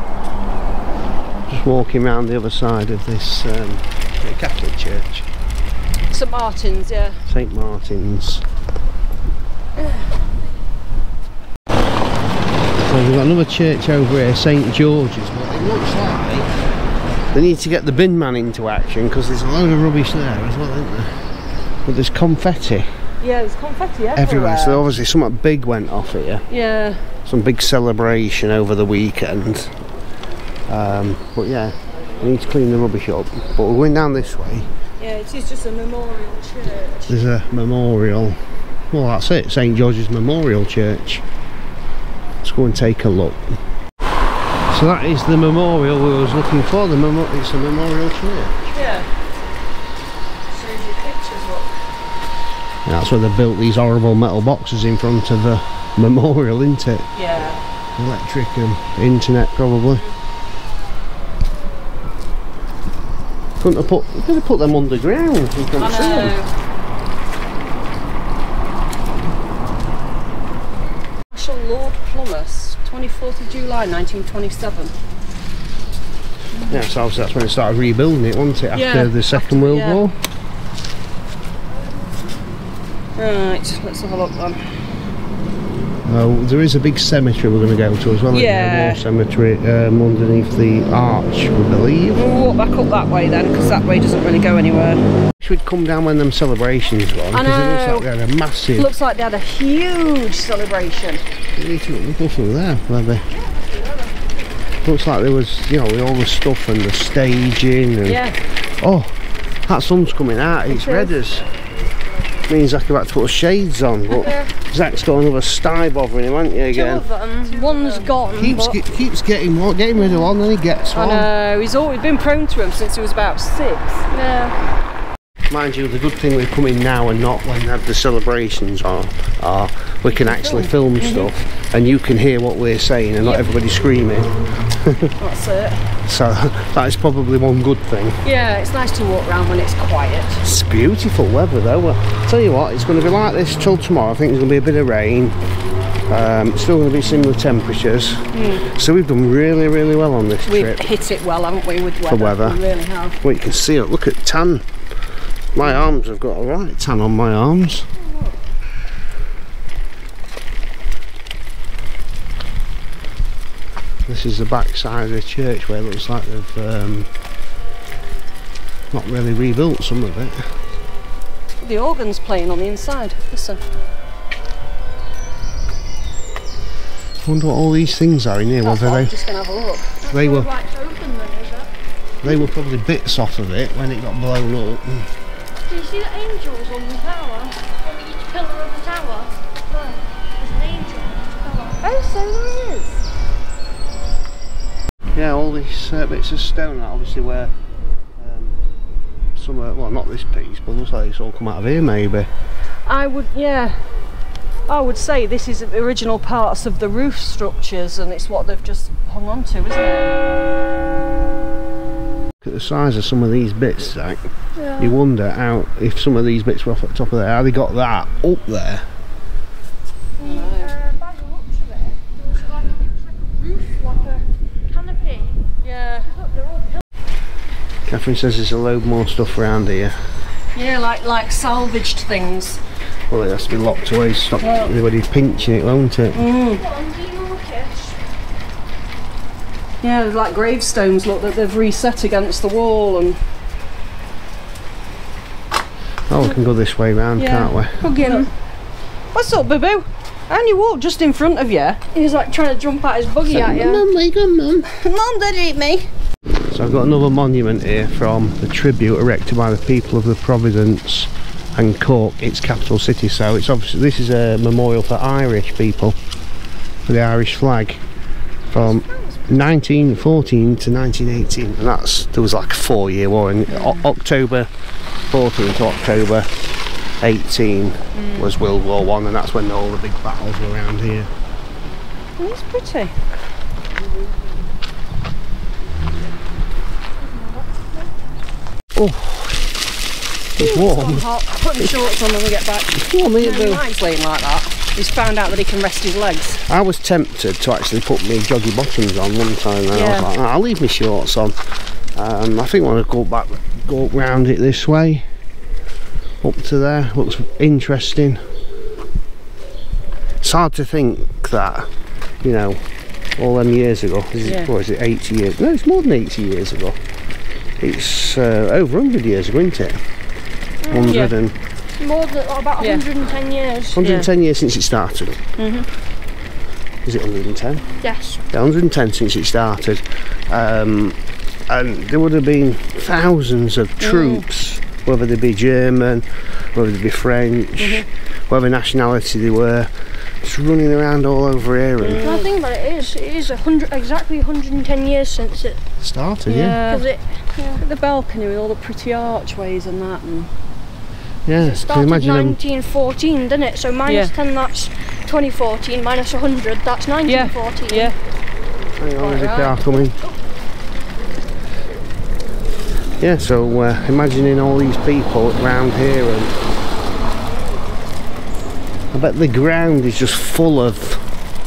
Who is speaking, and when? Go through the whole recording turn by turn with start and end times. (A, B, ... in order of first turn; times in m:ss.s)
0:01.5-0:05.3 A
0:06.1-0:07.2 B
0:07.3-0:08.4 A
0:12.7-0:16.5 A
0:17.3-0:21.1 A
0:21.8-0:22.9 A
0:23.2-0:24.9 B
0:24.2-0:26.5 A
0:26.5-0:27.1 B
0:27.3-0:29.8 A
0:30.7-0:34.7 A
0:35.0-0:37.2 B
0:37.1-0:41.2 A
0:42.4-0:43.6 A
0:44.7-0:48.6 A
0:48.7-0:49.1 B
0:50.5-0:51.7 B
0:52.9-1:00.0 A
0:57.2-0:57.6 B
1:03.6-1:06.4 A
1:05.8-1:06.5 B
1:11.3-1:14.9 B
1:16.7-1:20.1 A
1:18.7-1:20.1 B
1:23.2-1:24.8 B
1:26.1-1:32.2 A
1:28.3-1:29.0 B
1:32.1-1:35.0 B
1:35.4-1:38.9 A
1:37.3-1:38.1 B
1:38.8-1:41.2 B
1:41.6-1:43.3 A
1:44.8-1:48.3 A
1:48.0-1:48.4 B
1:48.8-1:51.5 A
1:50.7-1:51.1 C
1:52.5-1:57.1 A
1:54.1-1:54.5 B
1:56.7-1:58.8 C
1:57.4-1:58.1 B
1:58.4-2:01.3 A
2:00.9-2:04.1 B
2:04.1-2:04.6 C
2:05.5-2:15.1 A
2:10.3-2:11.3 B
2:15.2-2:16.0 B
2:16.1-2:18.2 A
2:18.2-2:20.4 B
2:20.4-2:25.4 A
2:26.1-2:30.9 A
2:28.3-2:28.7 B
2:30.5-2:33.2 B
2:32.1-2:32.6 A
2:33.2-2:34.7 A
2:35.5-2:37.9 A
2:38.0-2:38.3 B
2:44.1-2:47.1 A
2:48.9-2:50.5 A
2:51.6-2:53.6 B
2:57.2-2:59.1 A
2:58.6-3:00.0 B
3:00.0-3:01.7 C
3:00.1-3:00.5 A
3:02.2-3:05.1 A
3:05.7-3:12.0 C
3:11.8-3:13.0 B
3:15.1-3:17.5 A
3:18.2-3:18.6 A
3:19.4-3:22.3 A
3:22.9-3:23.9 B
3:24.7-3:30.2 B
3:32.4-3:38.9 A
3:34.6-3:34.9 C
3:40.2-3:40.8 B
3:40.2-3:46.8 C
3:45.6-3:46.1 B
3:47.9-3:50.0 A
3:50.5-3:52.6 B
3:53.1-3:56.2 A
3:54.4-3:54.7 B
3:56.1-3:56.6 B
3:56.5-3:58.0 C
3:59.8-4:03.2 B
4:06.1-4:07.8 A
4:07.2-4:08.3 B
4:07.8-4:08.3 C
4:09.1-4:11.9 B
4:11.9-4:13.9 C
4:13.3-4:14.7 A
4:14.7-4:15.9 B
4:16.5-4:26.0 A
4:26.9-4:27.8 A
4:28.5-4:34.5 A
4:28.6-4:29.4 B
4:33.5-4:33.8 B
4:35.1-4:36.3 A
4:37.0-4:41.1 A
4:38.0-4:38.3 B
4:42.2-4:43.0 B
4:47.0-4:47.9 C
4:48.7-4:49.5 A
4:50.4-4:51.0 A
4:50.4-4:56.4 B
4:52.7-4:53.6 A
4:56.5-5:01.4 A
4:59.7-5:00.1 B
5:02.0-5:05.1 A
5:06.2-5:08.2 A
5:10.2-5:11.7 A
5:12.2-5:12.6 A
5:13.2-5:16.8 A
5:14.2-5:14.5 B
5:17.6-5:19.8 A
5:20.6-5:21.0 C
5:20.7-5:21.4 A
5:20.9-5:21.1 B
5:21.8-5:23.8 C
5:22.6-5:22.8 B
5:23.7-5:25.2 A
5:23.8-5:24.1 B
5:25.4-5:25.7 B
5:26.8-5:27.6 A
5:27.8-5:28.2 C
5:28.3-5:42.1 A
5:33.8-5:34.3 B
5:37.6-5:37.9 B
5:41.8-5:42.3 B
5:42.0-5:45.6 C
5:45.8-5:46.6 A
5:46.3-5:46.8 B
5:46.7-5:47.6 C
5:47.6-5:50.3 B
5:51.3-5:52.4 A
5:51.5-5:57.9 C
5:53.9-5:54.1 B
5:57.1-5:58.0 B
5:58.8-6:00.0 A
5:59.0-5:59.9 B
6:03.0-6:06.3 A
6:08.9-6:11.1 A